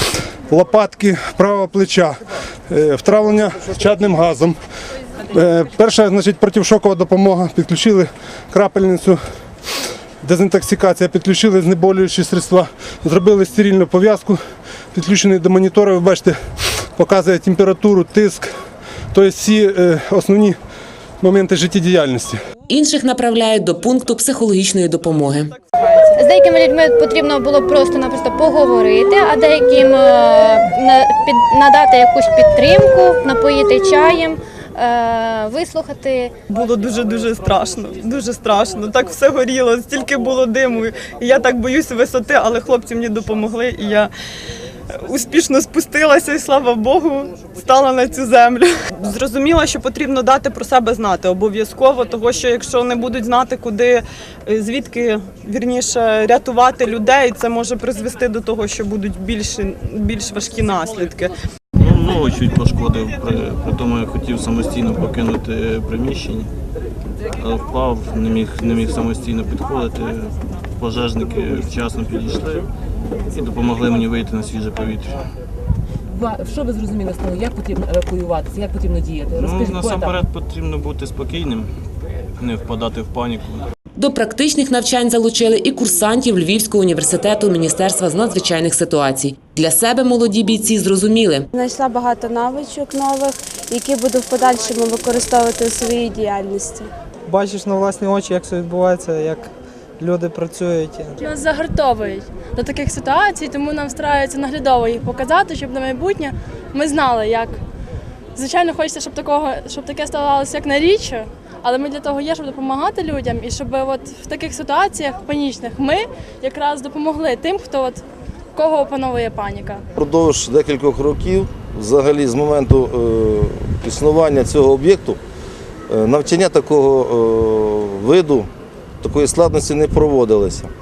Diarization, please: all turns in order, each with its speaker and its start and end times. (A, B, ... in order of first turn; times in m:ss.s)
0:00.5-0:04.6 A
0:05.3-0:09.2 A
0:10.2-0:14.4 A
0:14.9-0:16.4 A
0:17.0-0:18.5 A
0:19.1-0:20.6 A
0:21.2-0:22.4 A
0:22.7-0:25.5 B
0:26.1-0:36.3 C
0:36.5-0:44.1 D
0:45.0-1:01.3 D
1:01.8-1:06.5 E
1:07.4-1:12.7 E
1:13.3-1:15.3 E
1:16.1-1:20.2 F
1:19.4-1:21.7 E
1:22.4-1:23.7 E
1:24.0-1:31.5 B
1:31.5-1:36.9 G
1:37.3-1:41.2 H
1:41.2-1:47.6 I
1:48.4-1:58.0 I
1:58.6-1:59.8 I
2:00.0-2:05.2 J
2:05.9-2:08.5 J
2:09.0-2:10.7 J